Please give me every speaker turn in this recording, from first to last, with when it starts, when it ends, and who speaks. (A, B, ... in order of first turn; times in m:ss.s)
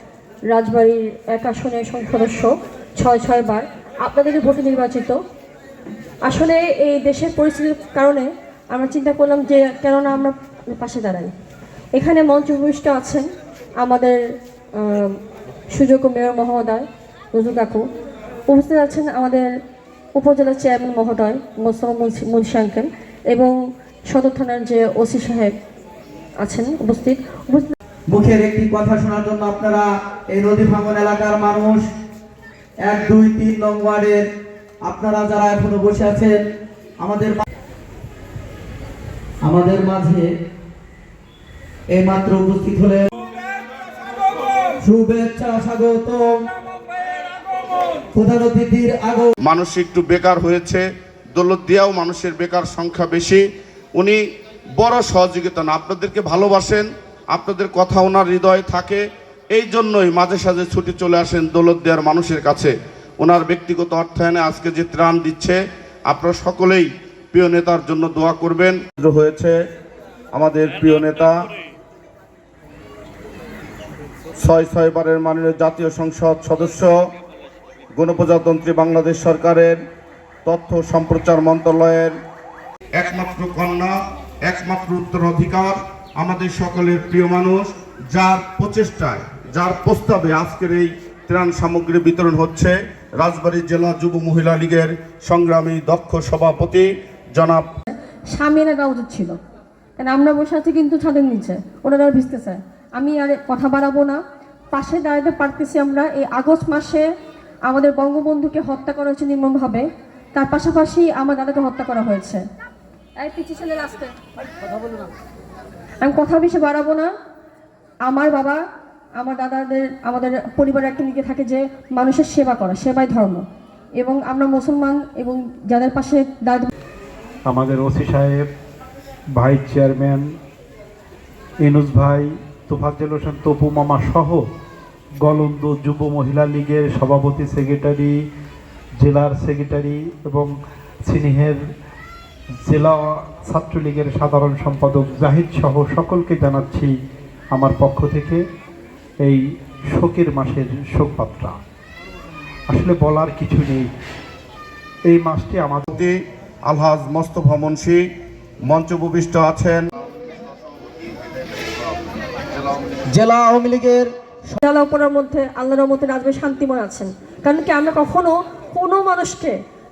0:00.5-0:05.2 A
0:06.2-0:11.3 A
0:11.9-0:13.2 A
0:13.8-0:14.2 A
0:14.8-0:15.2 A
0:15.7-0:17.8 A
0:18.5-0:19.5 A
0:20.2-0:23.5 A
0:24.1-0:25.5 A
0:26.4-0:27.7 A
0:28.1-0:31.8 B
0:32.8-0:34.3 B
0:34.8-0:36.4 B
0:37.0-0:37.4 B
0:39.4-0:40.3 B
0:41.9-0:43.1 B
0:44.8-0:46.5 B
0:48.1-0:49.3 B
0:49.4-0:53.4 C
0:54.8-1:05.6 C
1:06.1-1:09.5 C
1:10.3-1:11.4 C
1:14.4-1:16.9 C
1:17.9-1:19.8 C
1:20.4-1:22.1 C
1:23.0-1:37.6 C
1:38.3-1:39.4 A
1:40.0-1:44.2 A
1:44.7-1:47.0 A
1:47.7-1:52.4 A
1:53.2-1:54.1 A
1:56.0-1:57.1 A
1:58.1-1:58.6 A
1:59.2-2:03.4 A
2:04.0-2:06.7 A
2:07.5-2:08.4 D
2:09.4-2:10.2 D
2:11.6-2:14.4 D
2:15.2-2:18.1 D
2:19.0-2:20.5 D
2:21.0-2:21.6 D
2:22.6-2:26.9 D
2:27.5-2:28.4 D
2:29.9-2:31.5 D
2:32.7-2:33.9 D
2:35.1-2:35.8 D
2:36.7-2:38.0 C
2:38.7-2:39.8 C
2:43.1-2:44.6 B
2:44.6-2:49.5 A